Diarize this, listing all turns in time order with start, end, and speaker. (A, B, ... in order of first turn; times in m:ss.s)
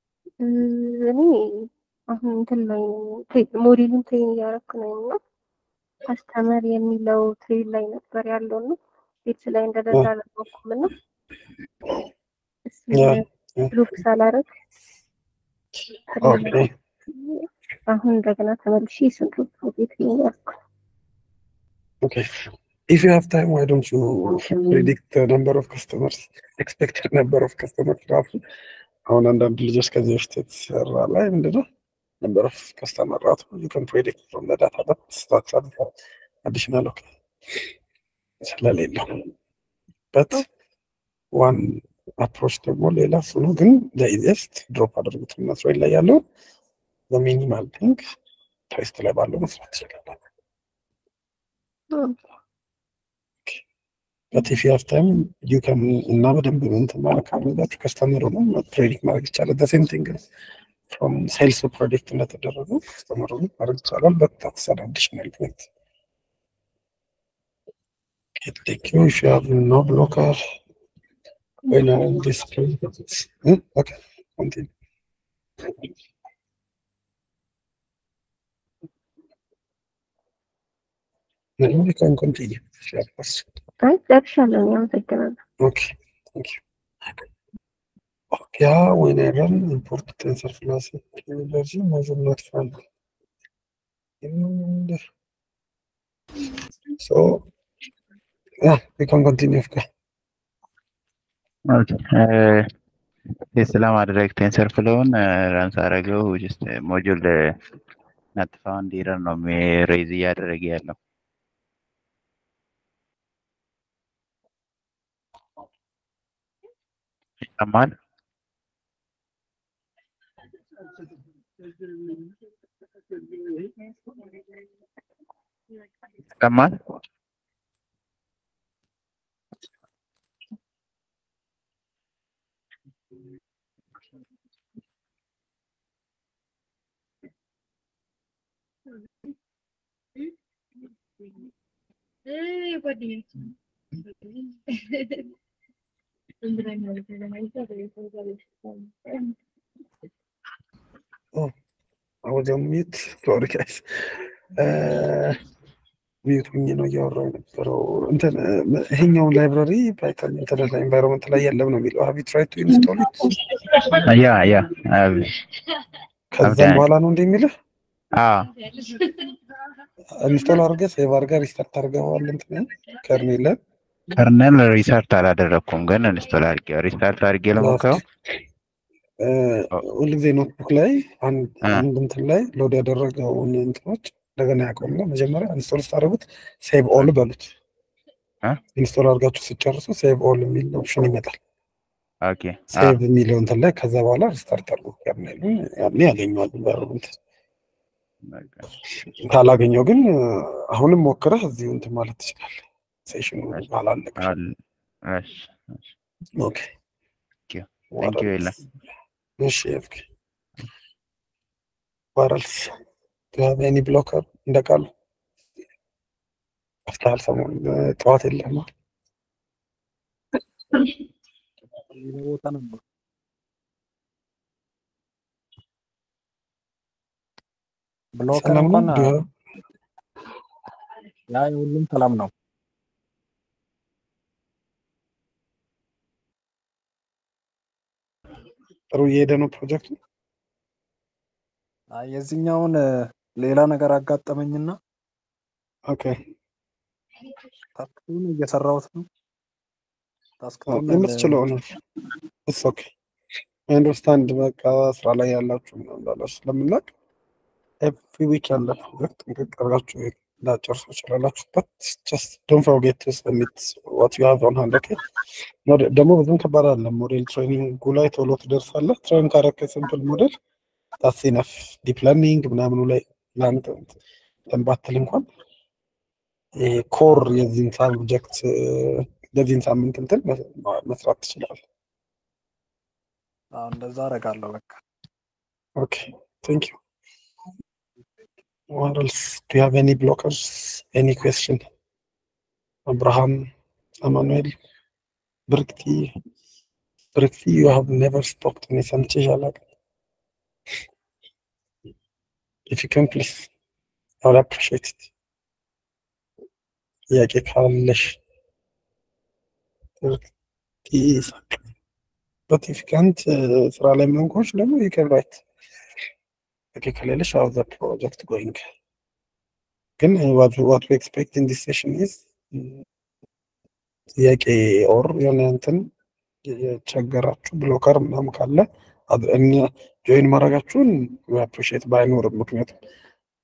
0:00.4-0:05.2 A
0:06.1-0:10.9 A
0:12.7-0:14.4 A
0:12.9-0:13.7 B
0:16.1-0:20.5 A
0:16.2-0:16.7 B
0:22.0-0:28.4 B
0:29.1-0:31.7 B
0:32.2-0:35.9 B
0:36.4-0:37.7 B
0:38.4-0:39.2 B
0:40.1-0:40.4 B
0:41.3-0:46.2 B
0:47.1-0:48.0 B
0:48.7-0:50.2 B
0:54.3-1:00.2 B
1:00.9-1:05.7 B
1:08.4-1:10.4 B
1:11.7-1:14.7 B
1:21.6-1:23.5 B
1:23.8-1:25.4 A
1:25.6-1:27.2 B
1:28.3-1:32.8 B
1:34.2-1:35.0 B
1:37.0-1:37.5 B
1:38.6-1:39.9 B
1:41.7-1:42.7 C
1:43.6-1:47.6 C
1:48.4-1:51.0 C
1:57.4-1:57.9 C
2:06.4-2:06.8 C
2:22.4-2:23.1 A
2:26.5-2:28.6 A
2:32.2-2:35.4 B
2:36.2-2:43.3 B
2:43.9-2:45.3 C
2:46.3-2:47.5 B
2:46.4-2:46.9 C
2:48.2-2:48.5 C
2:50.1-2:53.6 B
2:54.1-2:58.0 C
2:57.6-2:58.0 B
2:59.2-3:07.5 B
3:08.8-3:11.4 B
3:12.2-3:13.0 C
3:12.7-3:17.2 B
3:18.3-3:18.7 C
3:19.2-3:24.3 B
3:23.5-3:24.6 C
3:25.1-3:25.9 C
3:26.4-3:26.7 B
3:27.5-3:28.6 C
3:28.0-3:28.5 B
3:29.4-3:30.1 B
3:32.2-3:32.8 B
3:33.3-3:34.9 B
3:36.9-3:38.7 B
3:41.9-3:42.8 D
3:48.2-3:49.2 D
3:48.3-3:49.2 B
3:51.3-3:52.3 D
3:58.9-4:00.0 B
4:01.9-4:04.8 D
4:05.9-4:06.2 B
4:07.8-4:09.1 D
4:10.4-4:11.4 D
4:10.7-4:11.7 B
4:12.5-4:12.9 B
4:13.7-4:16.9 B
4:17.8-4:25.0 B
4:25.7-4:30.4 B
4:31.0-4:34.0 B
4:34.5-4:35.2 B
4:36.6-4:41.6 B
4:43.5-4:44.8 D
4:45.8-4:46.8 B
4:48.7-4:51.6 B
4:52.9-4:53.5 B
4:54.0-4:54.5 B
4:55.5-4:56.1 B
4:57.2-4:59.6 B
5:02.7-5:03.5 B
5:04.2-5:05.1 B
5:07.1-5:08.2 B
5:10.0-5:10.3 B
5:10.9-5:11.7 B
5:12.5-5:15.4 B
5:16.8-5:18.6 B
5:20.0-5:22.8 B
5:24.2-5:25.8 B
5:26.4-5:32.8 B